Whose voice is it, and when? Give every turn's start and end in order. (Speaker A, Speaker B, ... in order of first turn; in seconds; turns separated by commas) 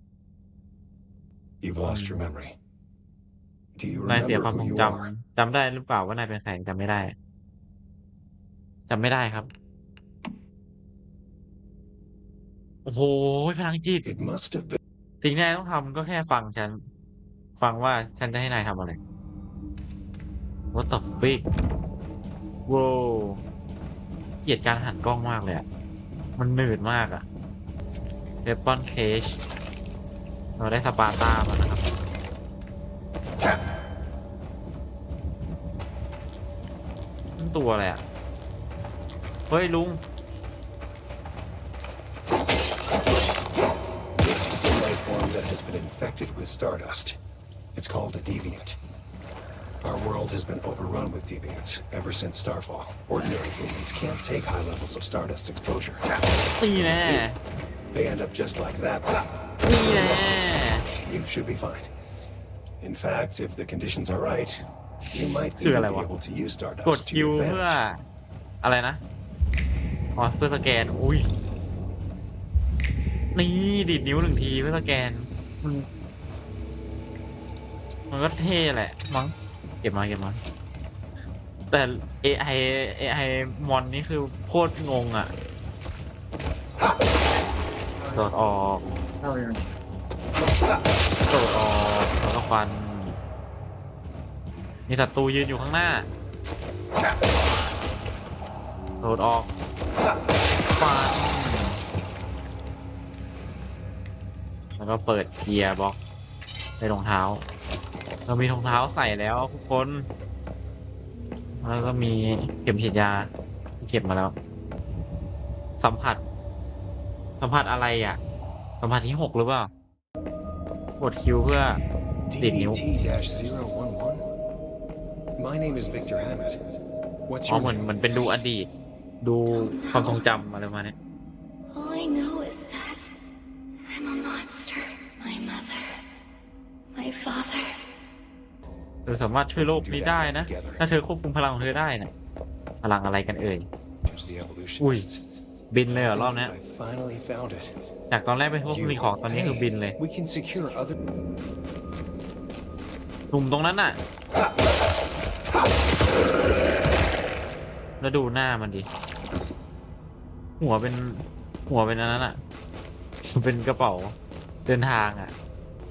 Speaker A: 1.6-2.6, Speaker B: 1.8-2.2, Speaker A: 3.8-5.1, Speaker B: 4.0-7.2, Speaker B: 8.9-9.5, Speaker B: 12.8-14.1, Speaker A: 14.0-14.8, Speaker B: 15.2-16.8, Speaker B: 17.6-19.0, Speaker B: 20.7-21.5, Speaker B: 22.7-23.4, Speaker B: 24.4-25.6, Speaker B: 26.4-27.2, Speaker B: 28.4-29.4, Speaker B: 30.6-31.8, Speaker B: 37.4-38.0, Speaker B: 39.5-40.0, Speaker A: 44.2-47.2, Speaker A: 47.7-48.8, Speaker A: 49.8-56.1, Speaker B: 56.6-57.4, Speaker A: 57.9-59.2, Speaker B: 59.6-60.9, Speaker A: 61.0-61.9, Speaker A: 62.8-67.8, Speaker B: 65.2-66.1, Speaker B: 66.8-68.0, Speaker B: 68.6-69.0, Speaker B: 70.2-71.3, Speaker B: 73.3-75.9, Speaker B: 78.1-80.4, Speaker B: 81.7-85.3, Speaker B: 88.1-88.8, Speaker B: 91.3-93.2, Speaker B: 94.9-96.1, Speaker B: 99.0-99.5, Speaker B: 100.8-101.8, Speaker B: 104.8-106.0, Speaker B: 106.8-107.4, Speaker B: 108.3-110.1, Speaker B: 111.6-114.4, Speaker B: 115.8-116.2, Speaker B: 117.4-118.2, Speaker B: 118.8-119.7, Speaker B: 121.0-121.8, Speaker A: 122.3-124.2, Speaker B: 122.4-122.8, Speaker A: 125.4-126.6, Speaker A: 127.3-127.9, Speaker B: 127.5-128.7, Speaker B: 129.2-130.9, Speaker C: 129.4-130.3, Speaker C: 131.7-133.3, Speaker C: 133.9-136.1, Speaker C: 136.9-137.9, Speaker B: 139.1-142.1, Speaker A: 139.6-140.8, Speaker B: 142.8-143.7, Speaker A: 144.1-145.3, Speaker B: 144.8-145.1, Speaker B: 145.7-146.5, Speaker A: 145.9-147.8, Speaker B: 148.1-149.9, Speaker A: 148.6-150.9, Speaker B: 153.3-154.0, Speaker B: 158.0-158.9, Speaker B: 160.6-162.4, Speaker B: 163.3-165.3